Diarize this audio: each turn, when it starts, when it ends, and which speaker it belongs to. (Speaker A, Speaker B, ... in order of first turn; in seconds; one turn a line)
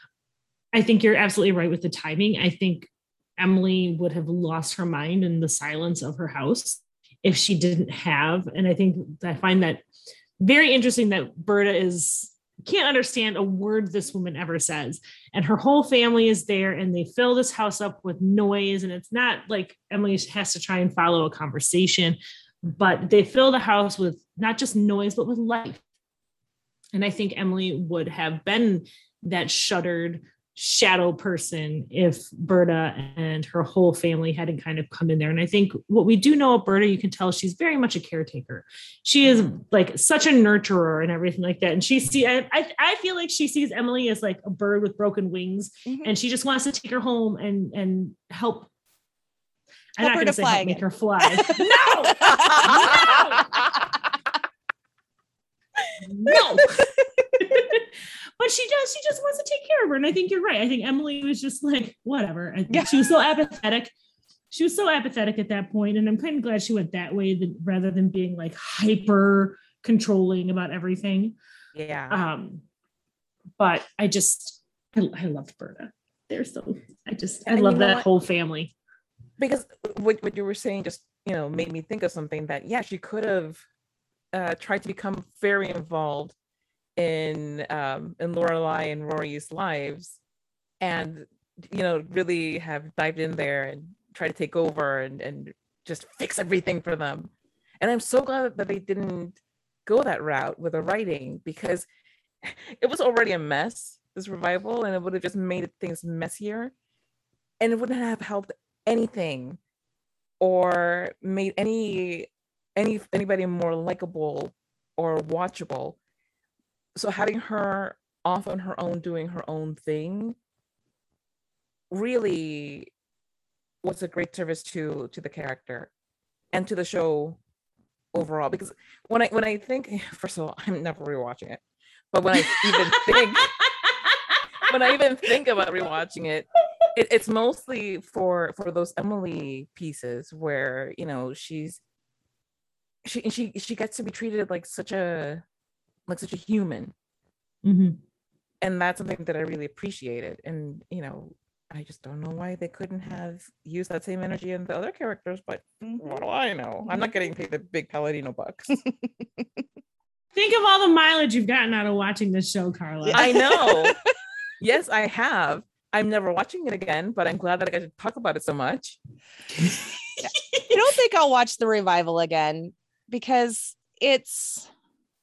Speaker A: 0.7-9.8
Speaker A: 10.4-25.8
Speaker A: 26.9-48.7
Speaker B: 39.2-39.5
Speaker C: 45.9-46.1
Speaker A: 50.0-53.5
Speaker C: 50.0-53.7
Speaker B: 52.3-53.2
Speaker A: 56.0-57.9
Speaker A: 58.4-63.9
Speaker A: 64.5-71.3
Speaker B: 71.7-72.2
Speaker A: 72.1-72.6
Speaker A: 73.6-78.7
Speaker B: 77.5-78.1
Speaker B: 79.4-83.6
Speaker B: 84.3-86.3
Speaker B: 87.0-90.2
Speaker B: 90.8-97.3
Speaker B: 97.8-101.8
Speaker B: 102.4-106.7
Speaker B: 107.6-109.6
Speaker B: 110.4-116.0
Speaker B: 117.0-120.3
Speaker B: 121.9-122.9
Speaker B: 123.8-125.9
Speaker B: 126.5-127.4
Speaker B: 128.1-131.6
Speaker B: 132.1-133.5
Speaker A: 132.4-134.4
Speaker B: 134.7-141.8
Speaker B: 143.0-145.4
Speaker B: 146.1-146.9
Speaker A: 147.6-148.0
Speaker B: 148.6-158.8
Speaker C: 155.8-156.2
Speaker A: 160.3-163.3
Speaker C: 163.0-164.0
Speaker B: 163.1-164.0
Speaker B: 164.6-169.0
Speaker A: 169.6-170.7
Speaker C: 170.2-174.7